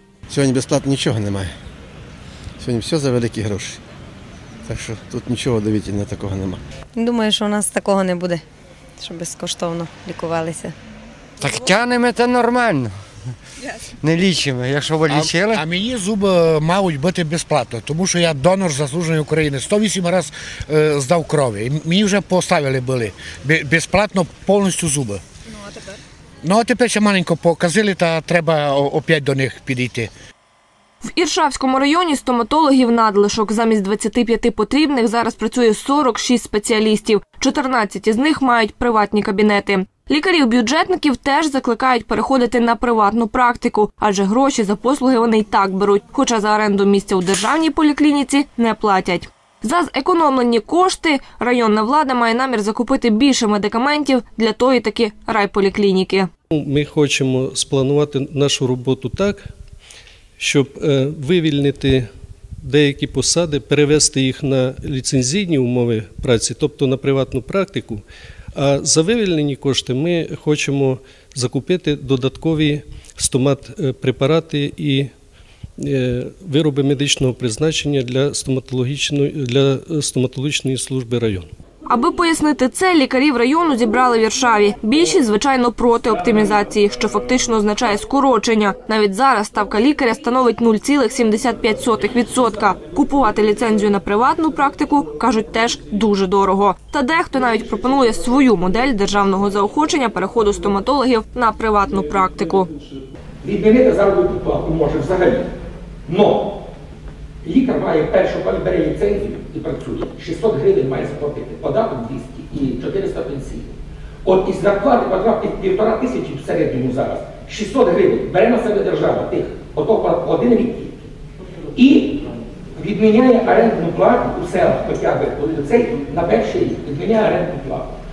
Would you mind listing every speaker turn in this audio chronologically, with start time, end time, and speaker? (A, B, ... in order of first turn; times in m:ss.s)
0:00.3-0:01.5 A
0:02.6-0:03.8 A
0:04.6-0:06.6 A
0:07.0-0:08.4 B
0:09.0-0:10.7 B
0:11.4-0:13.0 C
0:14.0-0:15.6 C
0:15.1-0:25.2 D
0:26.4-0:30.1 D
0:31.0-0:56.3 E
0:56.5-0:59.5 F
1:00.4-1:02.0 F
1:02.6-1:08.0 F
1:08.5-1:15.1 F
1:15.8-1:21.5 F
1:21.8-1:42.7 E
1:43.4-1:45.5 G
1:46.1-1:46.5 G
1:47.4-2:01.0 G
2:01.7-2:02.2 G
2:02.8-2:07.9 G